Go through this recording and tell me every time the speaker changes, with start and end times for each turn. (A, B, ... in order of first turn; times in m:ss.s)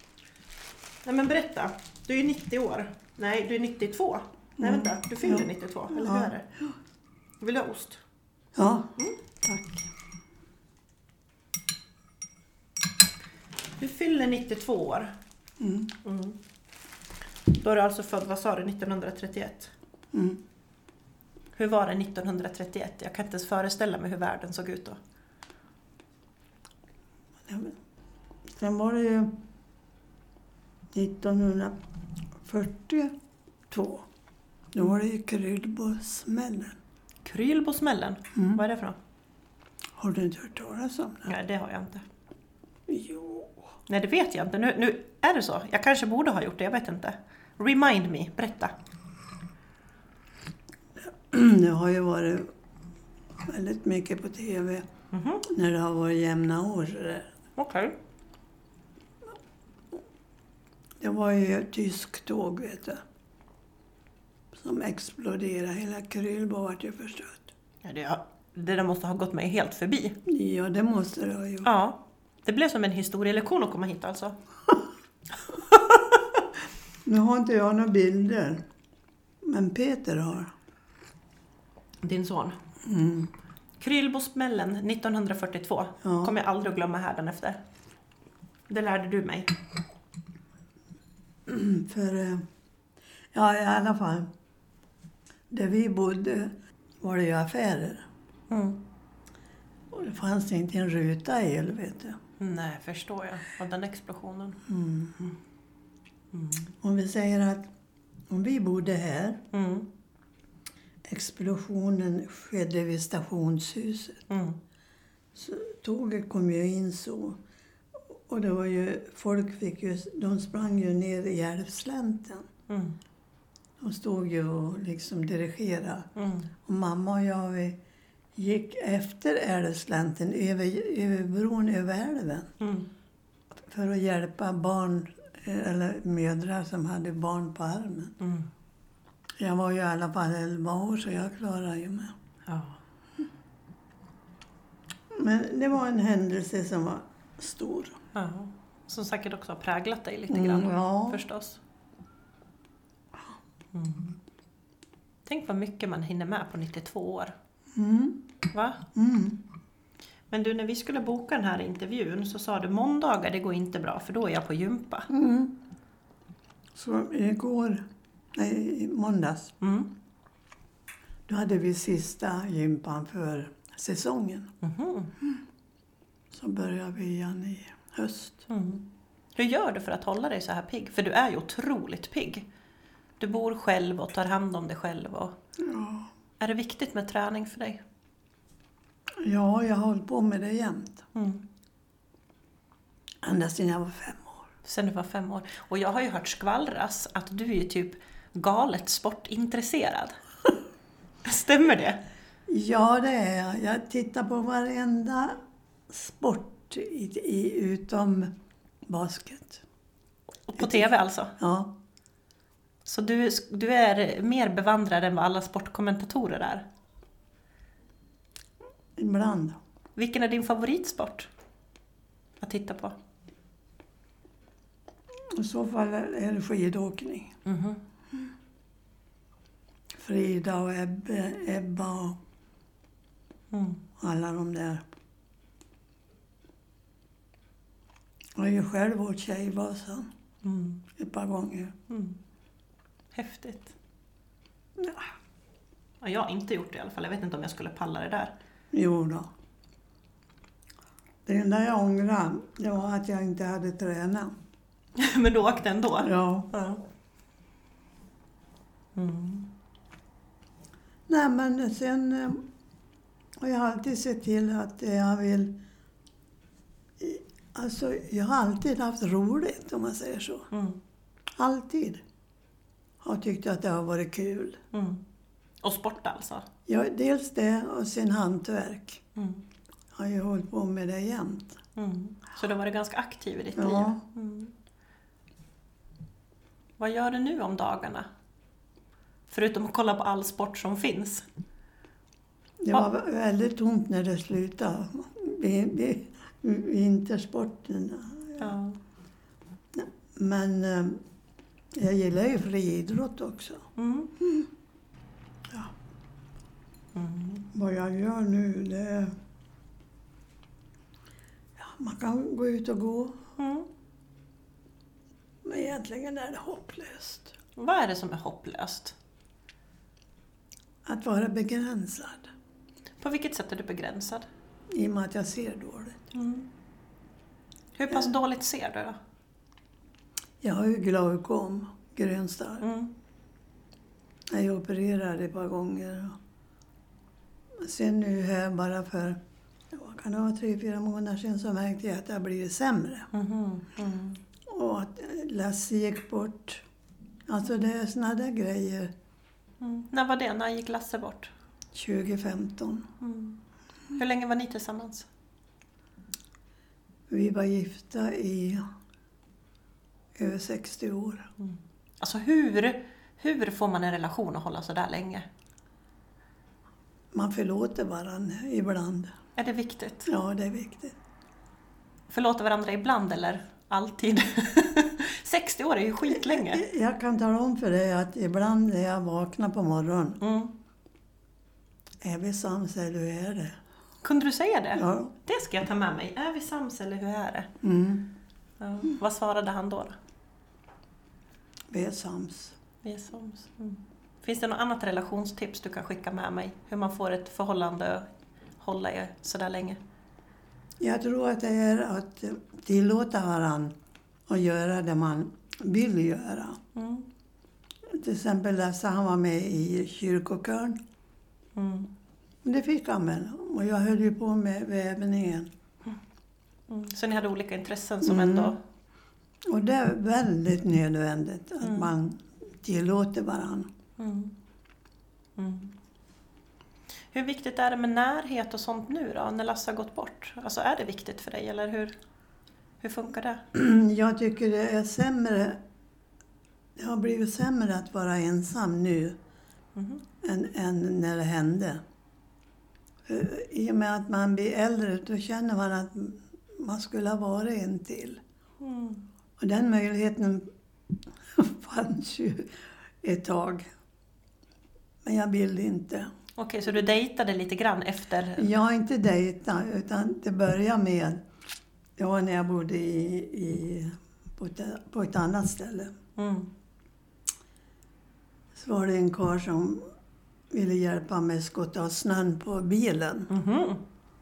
0:01.0-0:06.5 A
0:04.6-0:06.7 B
0:07.4-0:08.0 A
0:08.6-0:09.9 B
0:13.8-0:15.1 A
0:15.6-0:15.9 B
0:16.0-0:16.4 A
0:17.5-0:19.7 A
0:20.1-0:20.4 B
0:21.5-0:25.0 A
0:27.5-0:27.8 B
0:28.5-0:29.4 B
0:30.9-0:31.8 B
0:32.4-0:33.1 B
0:33.7-0:34.1 B
0:34.7-0:36.8 B
0:37.2-0:39.0 A
0:38.4-0:38.6 B
0:40.0-0:41.3 B
0:41.3-0:42.0 A
0:42.9-0:43.7 B
0:43.9-0:48.7 A
0:51.1-0:52.5 B
0:53.5-0:54.9 B
0:55.1-0:55.4 A
0:55.4-0:57.3 B
0:57.6-0:58.0 A
1:01.0-1:03.0 B
1:04.5-1:07.5 B
1:07.8-1:10.2 A
1:10.3-1:11.7 B
1:11.6-1:14.4 A
1:17.0-1:18.6 B
1:19.4-1:20.5 B
1:22.0-1:22.6 A
1:22.8-1:23.3 B
1:23.8-1:27.6 A
1:26.0-1:26.3 B
1:28.7-1:29.5 A
1:31.5-1:32.4 B
1:33.3-1:34.3 B
1:35.5-1:38.0 B
1:38.5-1:38.8 A
1:39.9-1:42.2 B
1:42.4-1:44.6 A
1:44.7-1:45.4 B
1:46.3-1:46.7 A
1:46.8-1:47.7 B
1:48.3-1:49.4 B
1:49.5-1:49.9 A
1:51.0-1:54.2 B
1:54.3-1:54.6 A
1:55.4-1:57.4 B
1:58.1-2:02.5 B
2:02.7-2:03.0 A
2:03.8-2:07.8 B
2:06.2-2:06.5 A
2:08.4-2:12.5 B
2:12.6-2:12.9 A
2:13.6-2:18.2 B
2:18.2-2:18.5 A
2:19.4-2:22.1 B
2:22.5-2:22.8 A
2:25.1-2:28.0 B
2:28.1-2:31.6 A
2:30.3-2:31.2 B
2:33.7-2:34.2 A
2:35.3-2:37.3 A
2:37.7-2:38.2 B
2:38.5-2:38.8 A
2:39.0-2:39.4 B
2:40.3-2:45.1 A
2:45.1-2:45.6 B
2:46.8-2:47.8 B
2:48.4-2:49.6 B
2:49.6-2:49.9 A
2:51.3-2:54.5 B
2:54.6-2:55.1 A
2:56.3-2:58.5 B
2:58.5-3:02.5 A
3:03.2-3:05.4 A
3:05.6-3:06.1 B
3:06.4-3:07.8 A
3:09.2-3:11.1 B
3:11.2-3:11.4 A
3:13.2-3:14.5 B
3:14.6-3:20.2 A
3:21.2-3:22.0 A
3:22.5-3:25.4 B
3:25.9-3:28.3 B
3:28.9-3:29.6 B
3:30.5-3:31.4 A
3:30.6-3:31.7 B
3:32.8-3:36.7 A
3:39.0-3:39.6 B
3:40.0-3:41.3 A
3:42.4-3:43.0 A
3:45.3-3:47.4 B
3:47.5-3:47.8 A
3:50.0-3:52.2 B
3:53.5-3:53.8 A
3:54.0-3:54.8 B
3:58.4-4:00.1 B
4:00.4-4:00.8 A
4:01.0-4:01.7 B
4:01.9-4:02.2 A
4:03.1-4:03.7 A
4:04.8-4:05.1 B
4:06.0-4:08.3 A
4:08.7-4:09.3 B
4:11.3-4:14.4 B
4:15.0-4:16.8 A
4:16.0-4:16.5 B
4:19.0-4:19.5 A
4:21.1-4:22.4 B
4:23.4-4:25.6 B
4:27.0-4:30.5 B
4:30.5-4:30.8 A
4:31.4-4:32.0 B
4:33.0-4:34.6 B
4:34.7-4:35.0 A
4:35.6-4:36.5 A
4:36.7-4:39.0 B
4:39.2-4:39.4 A
4:39.9-4:41.6 B
4:41.8-4:44.5 A
4:43.6-4:44.0 B
4:46.8-4:48.1 A
4:49.3-4:51.3 A
4:52.6-4:58.5 B
4:58.4-4:58.8 A
4:59.7-5:01.0 B
5:01.7-5:04.5 B
5:03.8-5:04.1 A
5:07.0-5:07.5 A
5:07.5-5:09.1 B
5:11.6-5:13.2 B
5:13.4-5:13.7 A
5:15.4-5:17.3 B
5:17.6-5:19.0 A
5:20.8-5:22.3 B
5:23.0-5:24.3 A
5:24.7-5:26.0 B
5:26.1-5:26.5 A
5:27.8-5:29.0 A
5:30.4-5:32.7 B
5:32.6-5:32.9 A
5:34.3-5:36.2 B
5:37.6-5:39.2 B
5:39.7-5:43.1 B
5:43.1-5:44.2 A
5:44.5-5:46.6 B
5:47.3-5:48.9 B
5:49.6-5:51.3 A
5:51.7-5:52.9 B
5:53.0-5:53.4 A
5:54.0-5:55.1 A
5:57.1-5:58.6 B
6:00.2-6:01.3 B
6:01.4-6:05.3 A
6:07.1-6:09.1 B
6:09.4-6:10.1 A
6:10.1-6:11.0 B
6:12.1-6:16.6 A
6:16.1-6:20.2 B
6:20.2-6:20.5 A
6:22.0-6:23.6 B
6:24.0-6:27.5 A
6:24.8-6:25.1 B
6:27.6-6:28.1 B
6:28.6-6:30.0 A
6:31.7-6:32.6 B
6:32.8-6:38.1 A
6:38.6-6:39.8 A
6:40.8-6:43.8 B
6:44.3-6:46.6 B
6:46.7-6:47.1 A
6:47.9-6:50.8 B
6:51.6-6:51.9 A
6:52.4-6:55.5 B
6:56.7-6:58.6 A
6:58.0-6:58.6 B
6:59.4-7:03.7 B
7:01.6-7:01.9 A
7:04.0-7:04.4 A
7:05.4-7:05.7 A
7:07.1-7:12.0 A
7:12.8-7:13.4 A
7:13.5-7:15.6 B
7:16.8-7:19.2 B
7:19.8-7:20.0 A
7:20.2-7:21.8 B
7:23.1-7:28.2 B
7:28.6-7:29.0 A
7:29.4-7:30.5 B
7:31.3-7:33.7 B
7:35.0-7:36.1 B
7:36.4-7:38.5 A
7:38.4-7:41.2 B
7:42.0-7:45.9 B
7:46.2-7:46.5 A
7:48.6-7:49.9 B
7:50.5-7:53.3 B
7:53.3-7:53.8 A